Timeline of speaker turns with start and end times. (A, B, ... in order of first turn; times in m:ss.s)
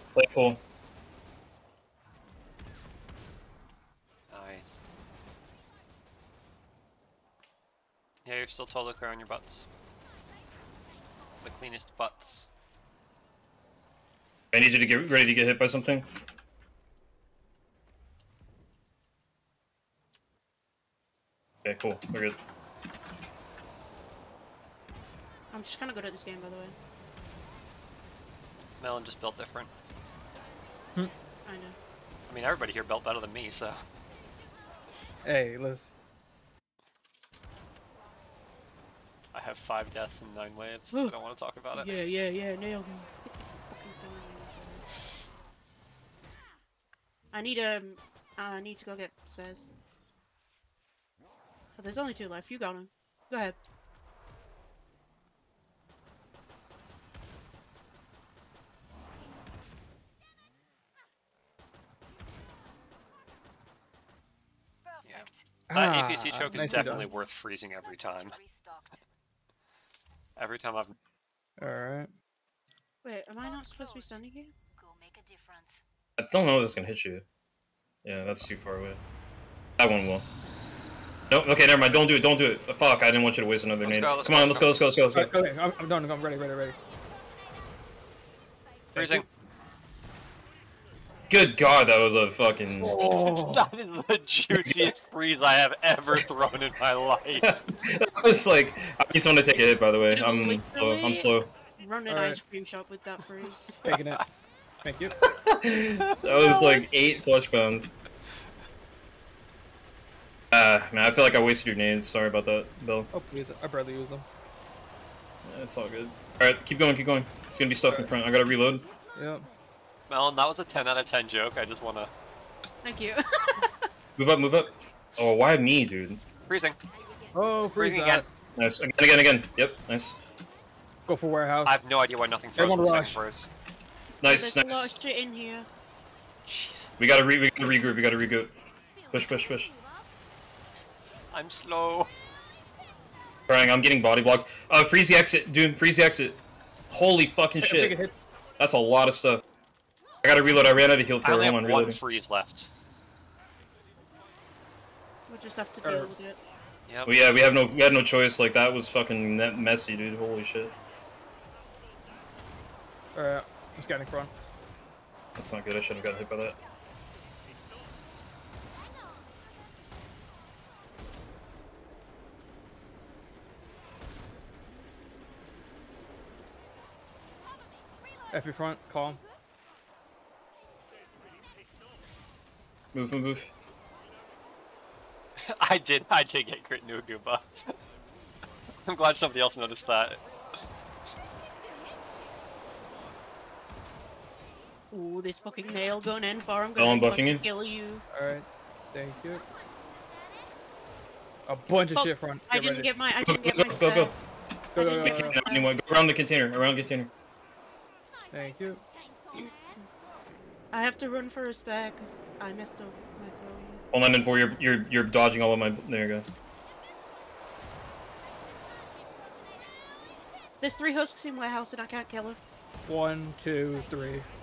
0:00.1-0:00.6 A
0:04.3-0:04.8 B
0:08.2-0:09.7 B
0:11.4-0:12.5 B
0:14.5-0:16.1 A
0:21.6-0:22.4 A
0:25.5-0:26.8 C
0:28.8-0:29.7 B
0:31.4-0:31.8 C
0:32.3-0:33.8 B
0:35.2-0:35.9 D
0:39.3-0:42.0 B
0:41.7-0:44.8 C
0:47.3-0:49.7 C
0:51.8-0:53.6 C
1:04.8-1:05.6 E
1:05.1-1:08.4 B
1:05.7-1:07.1 D
1:06.4-1:09.0 E
1:10.4-1:10.9 B
1:11.6-1:12.1 D
1:13.0-1:14.5 C
1:13.4-1:14.2 E
1:14.7-1:15.8 E
1:16.2-1:17.2 A
1:18.0-1:19.0 A
1:19.8-1:20.2 A
1:21.3-1:25.3 A
1:23.8-1:24.8 B
1:25.1-1:26.8 D
1:26.7-1:27.8 E
1:28.9-1:29.2 D
1:29.0-1:29.3 B
1:31.3-1:33.0 A
1:32.8-1:33.7 D
1:33.1-1:37.5 B
1:37.4-1:38.2 E
1:37.4-1:41.5 A
1:40.1-1:43.8 C
1:42.1-1:42.4 D
1:43.8-1:44.2 D
1:43.8-1:44.2 B
1:44.8-1:45.2 D
1:45.2-1:47.9 A
1:46.2-1:46.8 D
1:50.5-1:53.1 A
1:53.1-1:54.2 D
1:55.4-1:58.8 A
1:58.7-1:59.7 E
1:59.2-1:59.5 D
2:00.1-2:02.1 B
2:02.8-2:03.9 C
2:04.2-2:06.2 A
2:06.5-2:06.8 B
2:06.9-2:07.8 E
2:07.3-2:08.2 D
2:07.8-2:08.2 B
2:08.6-2:10.2 A
2:11.1-2:11.8 D
2:11.6-2:13.5 B
2:12.6-2:13.2 D
2:14.2-2:15.0 A
2:14.2-2:15.7 C
2:16.5-2:16.9 B
2:17.0-2:18.5 A
2:18.9-2:20.1 E
2:19.1-2:19.7 A
2:21.3-2:22.1 B
2:23.5-2:26.4 A
2:26.9-2:28.0 A
2:27.6-2:28.2 D
2:28.6-2:29.4 A
2:30.2-2:32.0 A
2:31.2-2:32.7 B
2:35.3-2:36.4 C
2:35.8-2:36.1 D
2:36.9-2:37.2 B
2:37.0-2:40.7 A
2:43.1-2:44.3 D
2:45.4-2:46.6 A
2:48.9-2:49.3 E
2:58.1-2:59.4 E
2:58.3-2:59.2 D
3:02.9-3:03.5 A
3:05.4-3:07.8 B
3:08.8-3:10.2 B
3:11.2-3:12.6 E
3:14.9-3:18.0 C
3:16.8-3:17.4 A
3:18.1-3:19.4 D
3:19.6-3:20.6 E
3:21.5-3:22.9 D
3:21.9-3:24.1 C
3:23.2-3:24.1 A
3:24.7-3:25.4 D
3:24.7-3:25.7 C
3:25.0-3:27.1 A
3:28.3-3:29.9 E
3:28.3-3:28.8 D
3:30.7-3:33.8 C
3:33.9-3:36.3 A
3:38.6-3:39.9 E
3:40.6-3:42.4 C
3:42.8-3:44.2 D